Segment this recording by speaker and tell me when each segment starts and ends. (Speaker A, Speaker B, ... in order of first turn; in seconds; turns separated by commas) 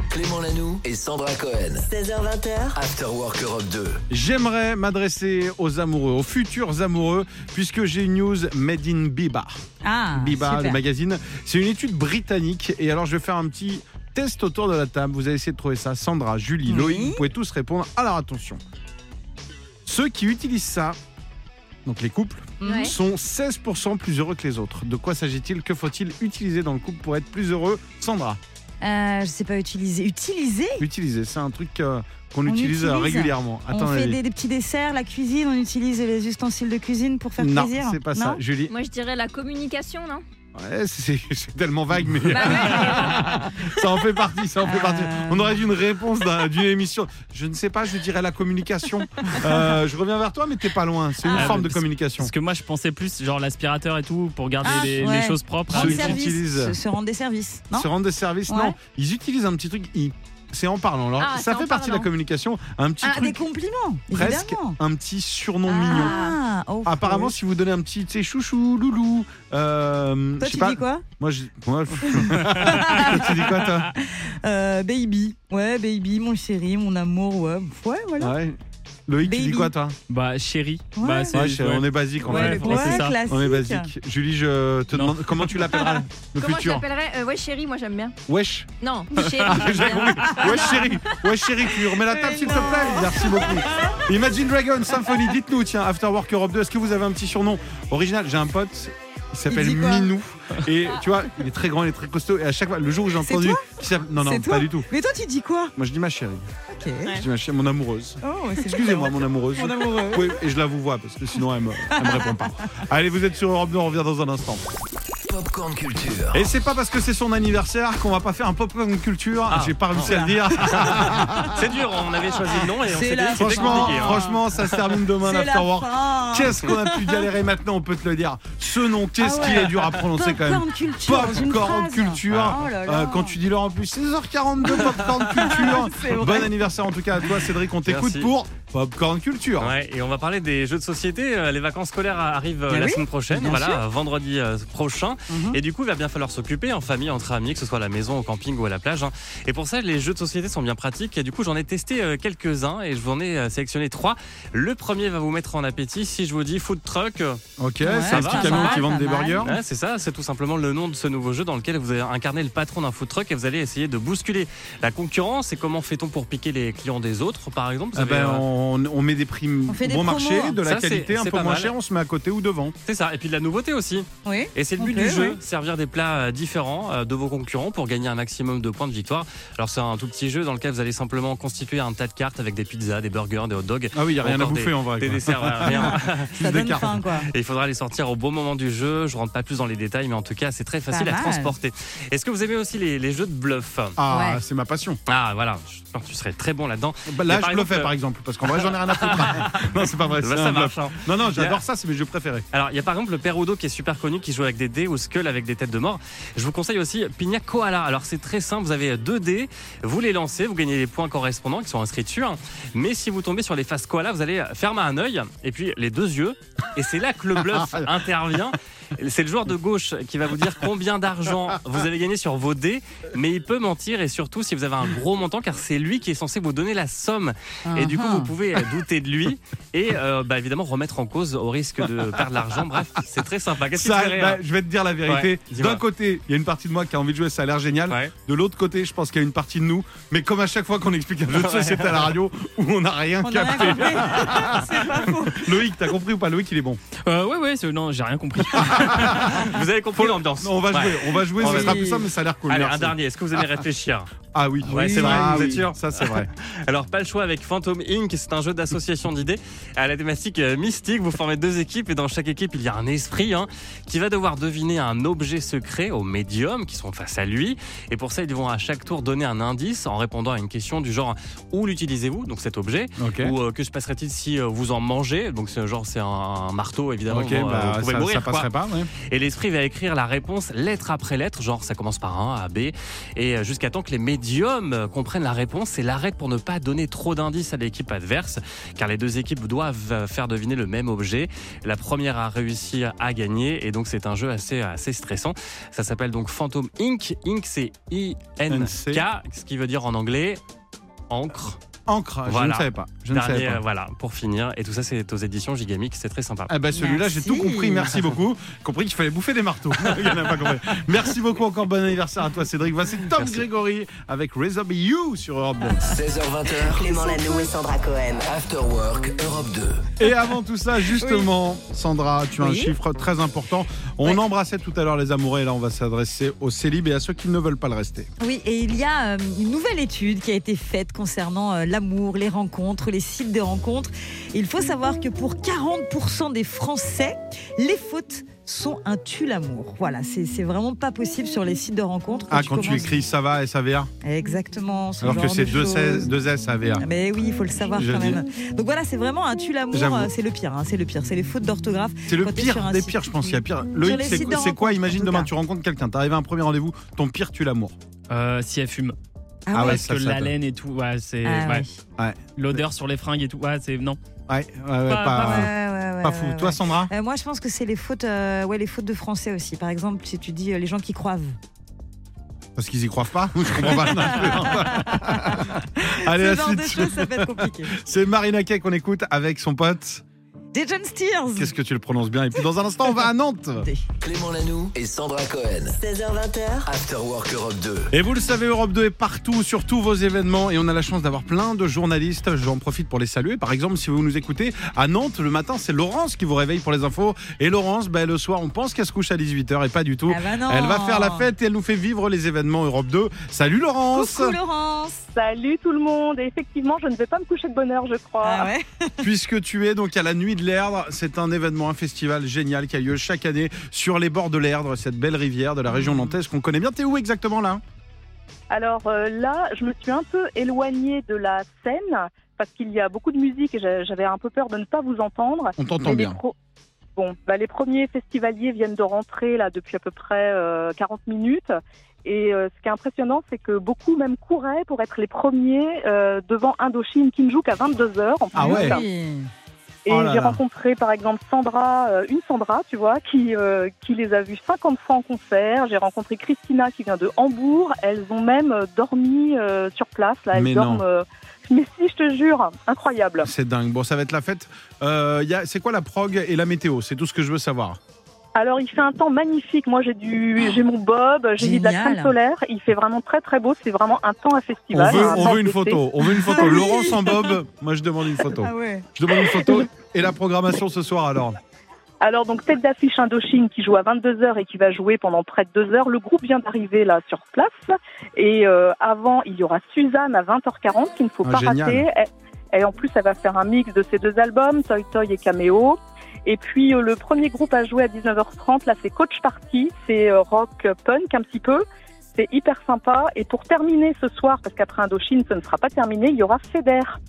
Speaker A: 0.1-1.9, Speaker B: 1.8-2.8, Speaker A: 2.7-4.0, Speaker C: 4.1-9.6, Speaker D: 9.8-10.8, Speaker C: 10.1-18.6, Speaker D: 16.7-17.2, Speaker C: 19.9-21.0, Speaker C: 21.8-28.4, Speaker D: 22.6-22.9, Speaker E: 22.6-22.9, Speaker D: 28.8-30.8, Speaker C: 30.8-34.2, Speaker D: 32.5-38.4, Speaker C: 37.4-38.7, Speaker E: 38.7-40.2, Speaker C: 40.5-52.3, Speaker E: 42.3-43.2, Speaker D: 44.6-45.6, Speaker D: 49.2-49.6, Speaker D: 51.2-51.6, Speaker F: 51.3-56.2, Speaker D: 54.6-57.9, Speaker C: 55.7-56.8, Speaker C: 57.7-63.4, Speaker D: 58.5-58.8, Speaker E: 61.2-62.1, Speaker D: 63.0-64.8, Speaker C: 64.1-66.2, Speaker E: 65.7-66.3, Speaker D: 65.7-67.3, Speaker C: 66.8-73.9, Speaker D: 70.4-71.0, Speaker D: 72.0-78.3, Speaker C: 78.2-80.0, Speaker D: 79.2-79.7, Speaker F: 80.1-83.2, Speaker D: 81.0-81.4, Speaker C: 81.3-86.8, Speaker D: 82.2-83.9, Speaker F: 84.9-85.7, Speaker E: 86.3-88.2, Speaker C: 88.3-104.9, Speaker E: 88.8-91.3, Speaker D: 92.1-94.0, Speaker D: 99.5-100.1, Speaker D: 103.2-105.7, Speaker C: 105.8-106.5, Speaker D: 106.7-107.2, Speaker C: 107.0-114.7, Speaker D: 108.2-110.3, Speaker D: 111.9-112.7, Speaker A: 115.3-116.5, Speaker C: 116.3-121.7, Speaker G: 119.5-120.1, Speaker D: 120.1-121.5, Speaker G: 120.7-124.6, Speaker D: 122.8-124.3, Speaker C: 123.3-139.7, Speaker D: 125.2-127.3, Speaker D: 129.2-133.4, Speaker G: 132.3-132.6, Speaker D: 134.7-136.5, Speaker G: 137.8-138.3, Speaker G: 139.6-157.4, Speaker D: 142.7-143.8, Speaker D: 145.3-145.6, Speaker C: 157.6-159.6, Speaker D: 157.8-159.4, Speaker G: 158.1-158.8, Speaker G: 159.4-168.4, Speaker C: 167.9-172.7, Speaker D: 169.7-170.6, Speaker G: 170.6-171.7, Speaker G: 172.8-194.0, Speaker D: 174.2-175.3, Speaker C: 183.9-187.0, Speaker D: 186.4-187.3, Speaker D: 190.9-191.5, Speaker C: 194.0-195.0, Speaker D: 194.1-194.4, Speaker G: 195.1-197.9, Speaker C: 197.1-202.4, Speaker G: 198.5-201.6, Speaker G: 202.5-234.4, Speaker C: 217.4-217.9, Speaker D: 227.7-228.3, Speaker C: 233.7-246.8, Speaker G: 235.1-235.8, Speaker G: 241.3-242.1, Speaker D: 243.2-245.5, Speaker F: 247.0-249.3, Speaker C: 248.5-253.4, Speaker G: 248.6-251.8, Speaker D: 251.4-252.0, Speaker G: 252.5-254.1, Speaker C: 254.3-256.3, Speaker G: 254.7-278.5, Speaker D: 254.8-255.5, Speaker C: 273.0-273.3, Speaker C: 277.1-278.9, Speaker G: 279.1-300.4, Speaker C: 298.5-299.0, Speaker G: 301.1-301.6, Speaker C: 301.9-303.6, Speaker G: 302.3-306.5, Speaker C: 306.5-316.0, Speaker D: 306.7-307.9, Speaker A: 315.8-317.5, Speaker B: 316.5-318.3, Speaker A: 318.2-319.9, Speaker C: 320.0-328.1, Speaker D: 321.0-321.3, Speaker D: 322.4-322.7, Speaker D: 328.2-342.9, Speaker C: 342.3-343.9, Speaker D: 344.0-346.1, Speaker C: 345.0-346.8, Speaker D: 346.8-355.3, Speaker C: 347.8-348.2, Speaker C: 349.7-350.1, Speaker C: 352.1-357.7, Speaker F: 358.1-358.9, Speaker D: 359.5-359.9, Speaker C: 359.5-360.3, Speaker F: 359.5-361.6, Speaker D: 361.2-361.7, Speaker C: 362.0-362.6, Speaker F: 362.4-364.0, Speaker C: 364.3-366.9, Speaker F: 364.9-365.5, Speaker D: 365.1-371.4, Speaker C: 372.6-380.0, Speaker D: 373.7-377.8, Speaker D: 380.5-381.5, Speaker C: 381.4-383.7, Speaker A: 384.0-385.8, Speaker B: 385.7-386.7, Speaker A: 386.6-387.9, Speaker C: 387.9-404.4, Speaker D: 400.1-401.3, Speaker D: 403.9-405.0, Speaker H: 405.1-408.5, Speaker D: 408.2-409.1, Speaker C: 409.0-417.6, Speaker D: 415.7-416.1, Speaker H: 418.5-426.3, Speaker C: 425.6-426.2, Speaker H: 426.9-438.9, Speaker C: 438.3-438.8, Speaker D: 438.3-439.3, Speaker H: 439.9-453.3, Speaker C: 439.9-440.4, Speaker C: 450.3-450.8, Speaker C: 453.2-457.8, Speaker H: 458.4-465.8, Speaker D: 461.4-462.1, Speaker C: 464.7-471.4, Speaker D: 464.9-465.4, Speaker D: 466.1-467.4, Speaker D: 468.4-469.6, Speaker H: 472.0-497.0, Speaker C: 481.2-481.9